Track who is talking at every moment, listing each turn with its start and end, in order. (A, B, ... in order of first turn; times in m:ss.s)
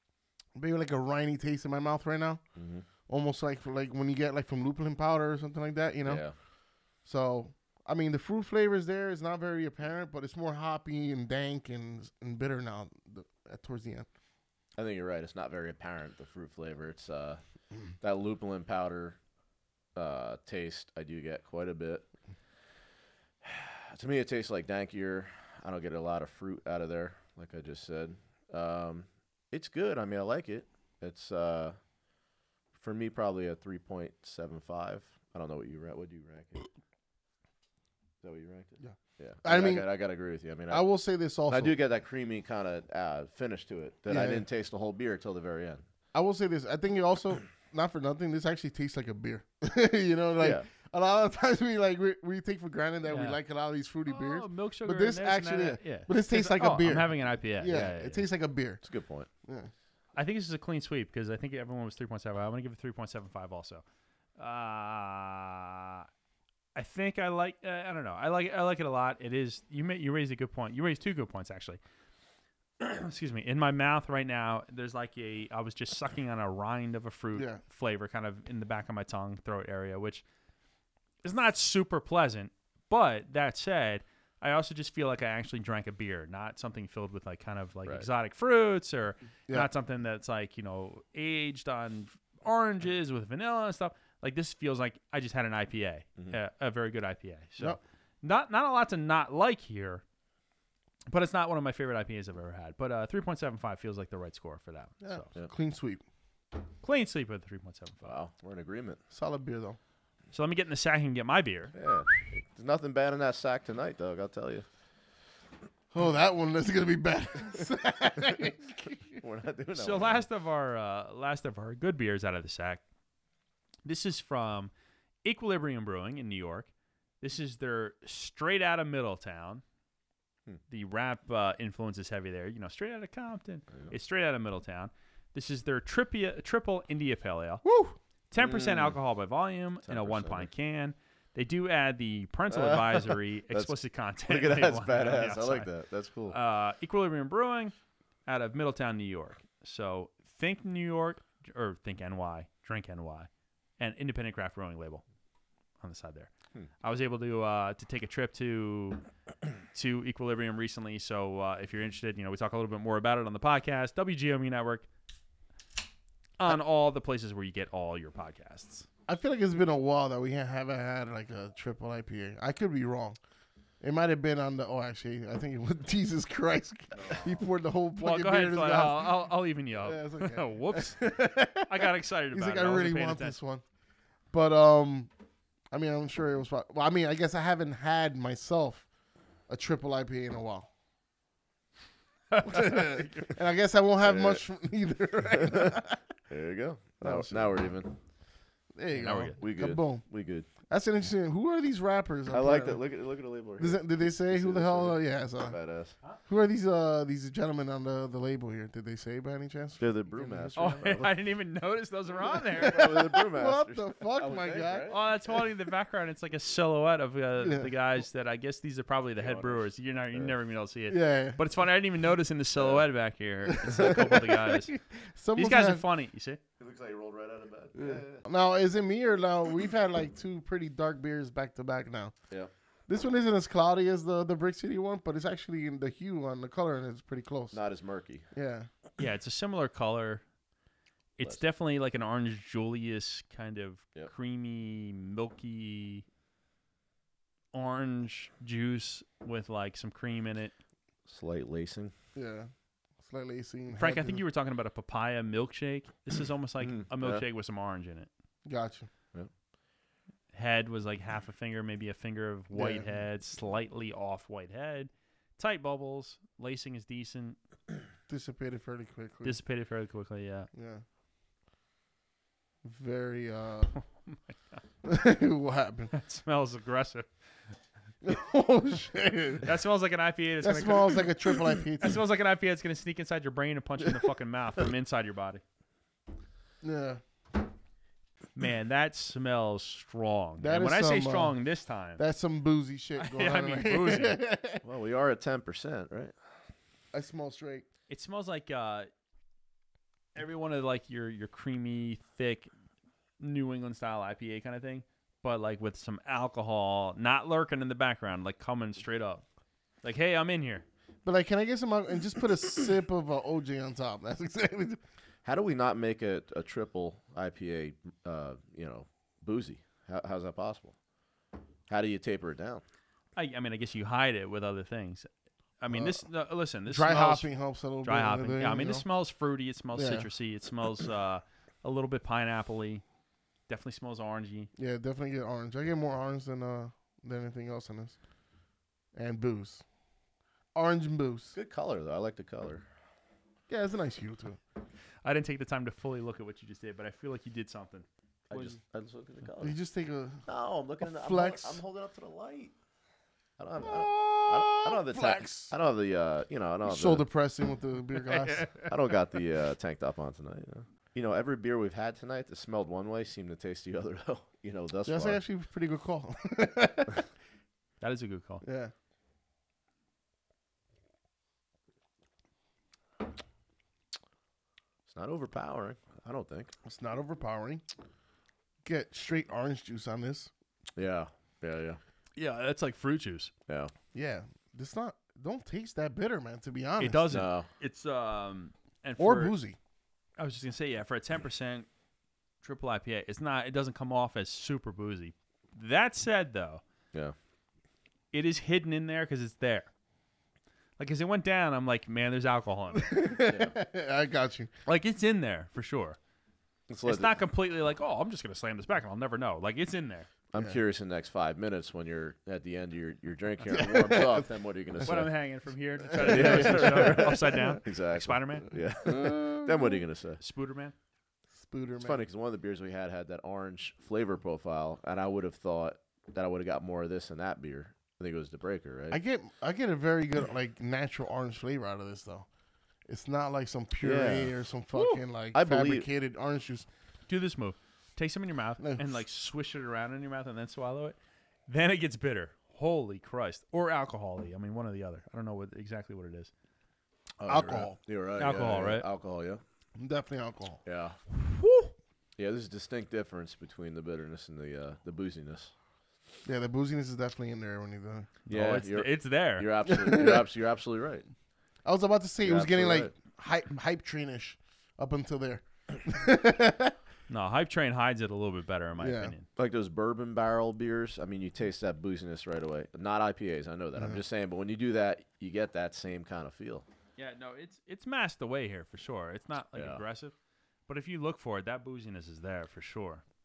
0:00.5-0:02.4 A
0:02.6-0:02.8 B
0:03.1-0:06.2 A
0:06.0-0:06.3 B
0:07.0-0:14.1 A
0:14.8-0:17.4 B
0:18.0-0:19.2 B
0:19.9-0:22.0 B
0:23.4-0:31.8 B
0:32.7-0:36.7 B
0:38.2-0:40.8 B
0:38.8-0:39.9 A
0:40.7-0:41.7 A
0:41.5-0:45.8 B
0:44.1-0:44.4 A
0:46.1-0:58.8 A
0:50.4-0:50.6 B
0:53.1-0:53.4 C
0:54.1-0:58.2 C
0:58.8-0:59.3 B
0:59.4-0:59.7 A
1:00.1-1:03.8 C
1:04.4-1:06.1 C
1:06.7-1:11.8 C
1:12.8-1:20.2 C
1:21.2-1:40.0 C
1:41.1-1:45.3 C
1:45.0-1:46.0 A
1:46.8-1:48.1 C
1:48.0-1:49.0 B
1:49.1-1:49.8 A
1:50.3-1:51.7 C
1:51.7-1:54.6 B
1:55.9-1:59.2 A
1:59.2-2:00.2 B
1:59.7-2:02.8 C
2:03.8-2:04.7 C
2:05.2-2:06.7 C
2:07.2-2:09.6 C
2:10.7-2:17.6 C
2:17.6-2:17.9 A
2:18.3-2:25.7 C
2:18.4-2:19.0 B
2:19.8-2:20.5 B
2:22.5-2:26.4 B
2:26.3-2:27.7 C
2:28.2-2:35.0 C
2:35.8-2:39.0 C
2:39.7-2:44.9 C
2:46.4-2:48.9 C
2:49.1-2:53.2 A
2:53.8-3:03.6 A
2:56.9-2:57.4 B
2:58.0-3:03.4 C
3:04.3-3:05.1 A
3:05.7-3:08.8 A
3:09.5-3:10.7 A
3:12.3-3:13.3 C
3:12.4-3:16.0 A
3:14.0-3:14.4 B
3:15.3-3:18.0 B
3:17.0-3:17.6 A
3:18.8-3:20.0 A
3:18.9-3:19.4 C
3:19.4-3:20.5 B
3:20.7-3:22.8 A
3:22.3-3:25.9 B
3:23.6-3:25.6 A
3:26.3-3:31.1 A
3:29.8-3:31.1 B
3:30.5-3:32.9 C
3:32.5-3:35.0 B
3:32.5-3:35.0 A
3:34.9-3:44.7 C
3:37.4-3:37.7 A
3:39.2-3:40.3 B
3:40.9-3:41.4 A
3:42.6-3:42.8 B
3:43.5-3:45.8 A
3:45.4-3:46.4 C
3:46.6-3:48.2 B
3:47.8-3:52.1 A
3:52.9-3:57.6 A
3:57.5-3:58.2 B
3:58.3-3:58.7 A
3:59.0-4:00.2 C
4:01.2-4:06.0 C
4:07.5-4:10.5 C
4:11.1-4:11.9 B
4:12.1-4:12.5 A
4:13.0-4:14.2 A
4:13.8-4:18.1 C
4:16.6-4:17.2 B
4:18.4-4:18.9 A
4:20.3-4:27.4 C
4:22.5-4:22.9 A
4:28.1-4:29.4 A
4:29.2-4:30.5 C
4:30.5-4:30.8 A
4:32.6-4:33.8 A
4:33.7-4:34.6 C
4:34.8-4:35.9 A
4:35.9-4:37.1 C
4:38.0-4:39.5 A
4:39.4-4:41.1 C
4:40.4-4:42.0 A
4:41.6-4:45.4 C
4:46.6-4:47.0 A
4:48.3-4:52.0 C
4:50.4-4:51.4 A
4:52.0-4:54.6 A
4:53.0-4:54.2 C
4:54.6-4:56.1 B
4:56.9-4:57.6 A
4:57.9-4:58.9 C
5:00.1-5:02.5 C
5:03.2-5:09.2 C
5:09.8-5:10.6 C
5:11.0-5:14.8 A
5:15.2-5:20.7 B
5:21.7-5:22.6 B
5:23.2-5:25.1 C
5:25.6-5:27.3 C
5:25.7-5:26.0 A
5:26.7-5:28.8 A
5:27.8-5:32.8 C
5:29.7-5:30.1 A
5:33.5-5:34.5 C
5:34.6-5:38.0 A
5:38.9-5:39.6 A
5:40.5-5:41.4 A
5:41.3-5:42.6 B
5:43.5-5:44.4 A
5:45.0-5:48.6 C
5:48.3-5:49.6 B
5:49.4-5:50.2 A
5:50.2-5:52.5 B
5:50.8-5:51.6 A
5:53.4-5:57.0 B
5:53.6-5:55.5 A
5:56.6-5:58.7 A
5:58.2-5:58.7 C
5:58.6-6:05.2 B
6:04.8-6:07.0 A
6:07.8-6:08.4 C
6:08.4-6:08.7 A
6:14.9-6:16.5 B
6:16.6-6:17.6 A
6:18.6-6:20.3 A
6:20.8-6:21.8 B
6:22.2-6:23.3 C
6:23.5-6:23.7 B
6:23.9-6:27.2 A
6:26.8-6:29.3 C
6:27.1-6:27.5 B
6:29.0-6:29.6 A
6:30.2-6:31.7 C
6:32.4-6:36.6 C
6:38.1-6:39.7 C
6:40.8-6:43.0 C
6:42.8-6:44.5 A
6:43.2-6:43.6 B
6:44.6-6:46.0 C
6:46.7-6:47.1 B
6:46.8-6:50.1 C
6:50.3-6:55.1 B
6:53.5-6:54.3 A
6:54.8-6:58.5 C
6:55.9-6:57.5 A
6:56.0-7:00.2 B
6:58.9-6:59.7 A
7:00.2-7:00.7 C
7:01.4-7:02.0 A
7:01.8-7:09.0 B
7:08.9-7:12.2 A
7:12.9-7:16.7 A
7:13.8-7:14.3 B
7:15.3-7:15.9 B
7:17.1-7:26.3 C
7:18.6-7:18.8 A
7:27.2-7:29.4 B
7:27.2-7:27.8 A
7:28.2-7:28.8 C
7:29.8-7:30.6 A
7:30.6-7:31.0 B
7:31.2-7:31.7 C
7:32.2-7:35.5 B
7:36.2-7:38.1 A
7:38.3-7:39.5 C
7:38.3-7:41.0 B
7:39.7-7:40.2 A
7:41.6-7:46.7 A
7:42.2-7:42.9 B
7:47.1-7:49.3 C
7:48.8-7:49.1 A
7:49.4-7:56.6 B
7:57.0-8:00.1 C
7:59.5-7:59.8 B
8:00.7-8:03.0 C